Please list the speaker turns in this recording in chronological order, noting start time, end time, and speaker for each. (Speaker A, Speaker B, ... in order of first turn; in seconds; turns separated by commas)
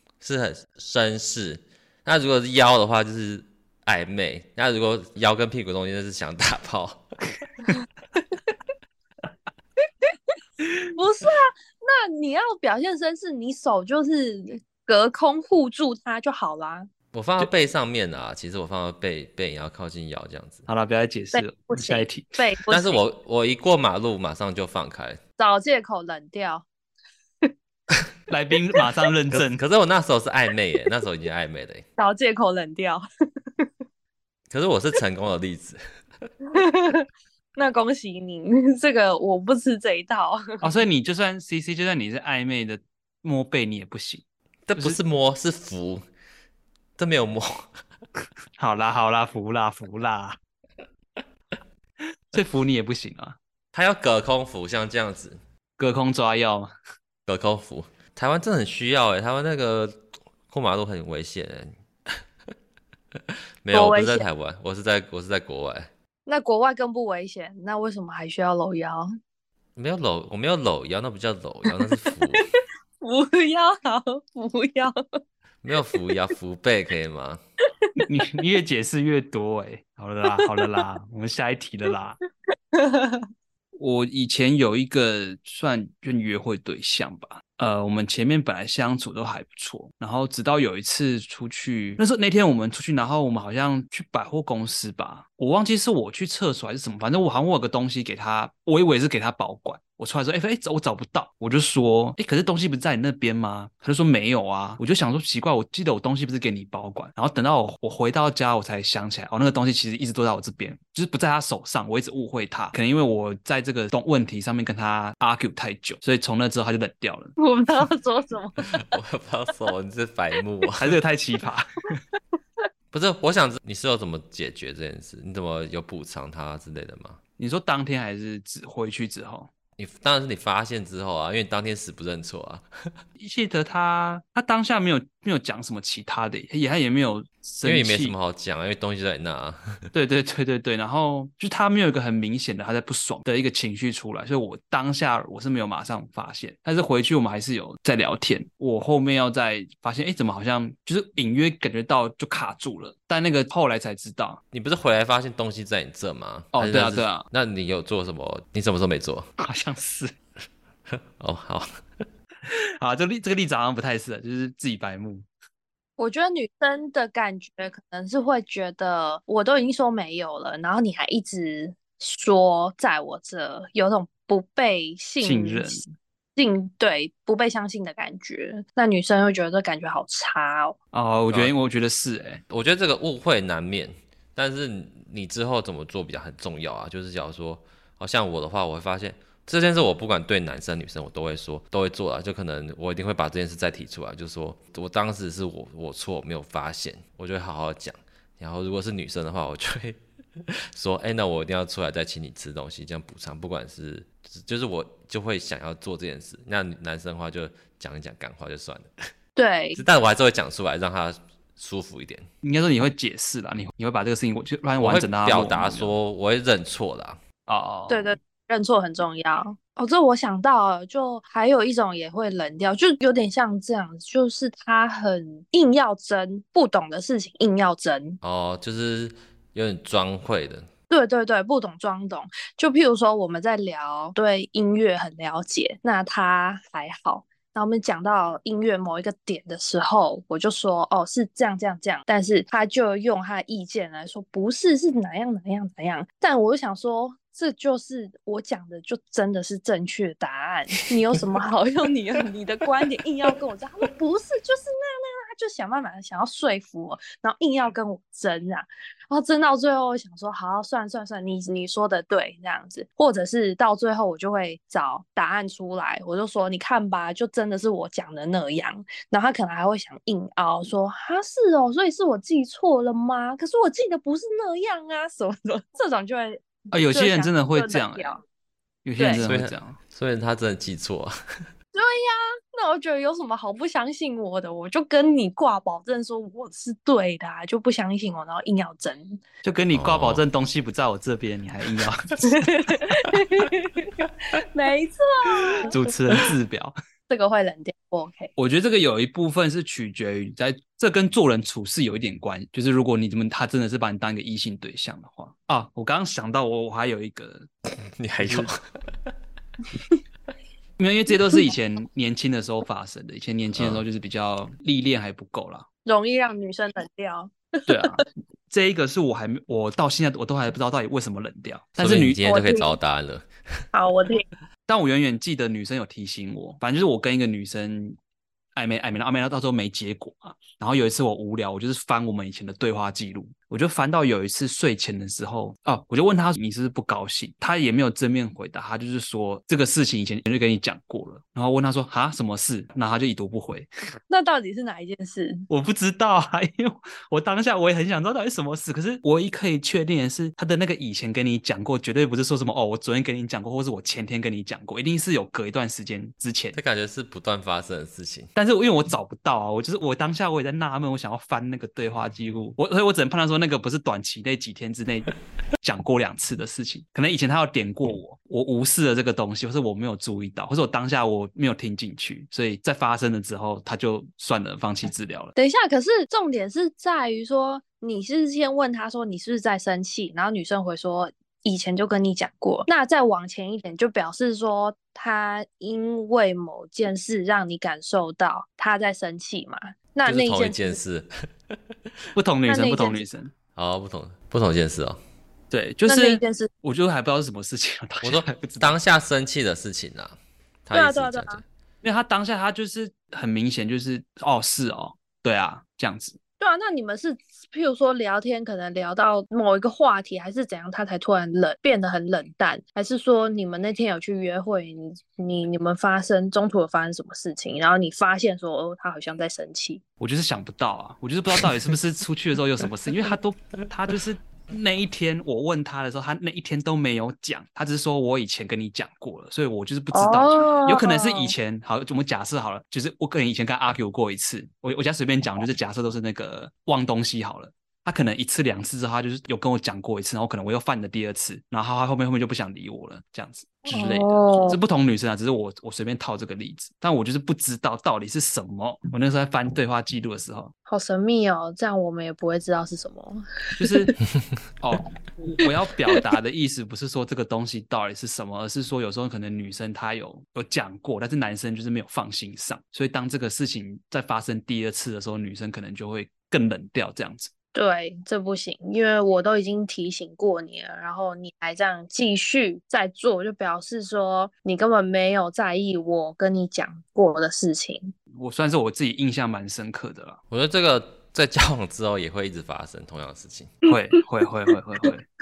Speaker A: 0.2-7.1, Speaker B: 10.9-16.9, Speaker A: 17.1-20.6, Speaker C: 20.7-22.4, Speaker B: 21.3-23.0, Speaker A: 22.7-25.2, Speaker B: 25.4-26.6, Speaker C: 28.3-29.6, Speaker A: 29.3-31.9, Speaker B: 32.0-33.0, Speaker A: 34.5-35.8, Speaker B: 36.5-40.6, Speaker C: 40.6-44.2, Speaker A: 44.7-46.0, Speaker A: 47.0-47.7, Speaker C: 48.6-50.4, Speaker C: 52.3-53.4, Speaker A: 53.7-55.4, Speaker C: 55.8-56.7, Speaker A: 57.3-62.2, Speaker A: 63.6-65.9, Speaker B: 63.7-64.3, Speaker B: 66.3-69.1, Speaker A: 69.8-72.5, Speaker B: 72.1-72.4, Speaker B: 73.0-75.0, Speaker A: 75.6-77.4, Speaker C: 78.0-82.2, Speaker B: 80.4-80.8, Speaker B: 82.7-83.2, Speaker C: 83.8-117.3, Speaker B: 117.4-118.7, Speaker A: 118.8-121.0, Speaker C: 120.8-121.9, Speaker A: 122.9-127.2, Speaker C: 127.4-129.5, Speaker A: 129.8-132.7, Speaker C: 133.2-138.1, Speaker A: 137.6-139.8, Speaker C: 139.9-154.4, Speaker A: 154.5-159.3, Speaker C: 156.5-157.3, Speaker C: 159.4-160.1, Speaker A: 161.2-161.7, Speaker C: 162.5-165.3, Speaker B: 166.0-175.8, Speaker C: 175.2-175.9, Speaker B: 176.4-180.8, Speaker C: 180.9-182.4, Speaker A: 182.5-208.9, Speaker B: 209.4-209.8, Speaker A: 209.8-212.3, Speaker C: 212.4-215.9, Speaker A: 214.8-217.2, Speaker C: 217.5-218.2, Speaker B: 217.9-228.2, Speaker A: 228.2-230.7, Speaker B: 230.9-278.2, Speaker C: 276.7-278.1, Speaker C: 278.9-279.8, Speaker B: 279.0-279.2, Speaker A: 279.2-281.1, Speaker B: 281.7-289.2, Speaker C: 289.4-292.5, Speaker A: 289.7-290.2, Speaker B: 292.2-295.7, Speaker C: 295.7-296.7, Speaker B: 297.1-298.3, Speaker C: 298.4-307.5, Speaker A: 307.9-308.6, Speaker C: 308.2-308.5, Speaker C: 310.8-315.7, Speaker A: 313.6-313.8, Speaker B: 315.9-318.0, Speaker C: 317.7-322.2, Speaker A: 321.8-323.3, Speaker B: 322.2-322.8, Speaker B: 323.7-324.2, Speaker C: 324.7-328.0, Speaker C: 328.6-343.7, Speaker B: 344.1-345.4, Speaker C: 345.5-356.6, Speaker A: 356.5-358.3, Speaker C: 358.4-375.3, Speaker B: 375.4-390.8, Speaker A: 390.1-391.1, Speaker C: 392.1-393.3, Speaker B: 392.5-393.0, Speaker A: 393.6-395.0, Speaker C: 395.5-398.8, Speaker B: 395.9-396.5, Speaker A: 398.0-400.2, Speaker A: 400.7-401.4, Speaker B: 400.7-401.4, Speaker C: 401.8-406.2, Speaker B: 406.4-419.8, Speaker C: 420.0-450.5, Speaker B: 429.9-431.3, Speaker B: 443.7-444.6, Speaker B: 450.7-453.9, Speaker C: 453.6-453.9, Speaker C: 454.6-467.3, Speaker B: 455.4-456.0, Speaker B: 467.5-477.9, Speaker C: 478.1-480.2, Speaker A: 480.3-483.6, Speaker C: 483.6-485.1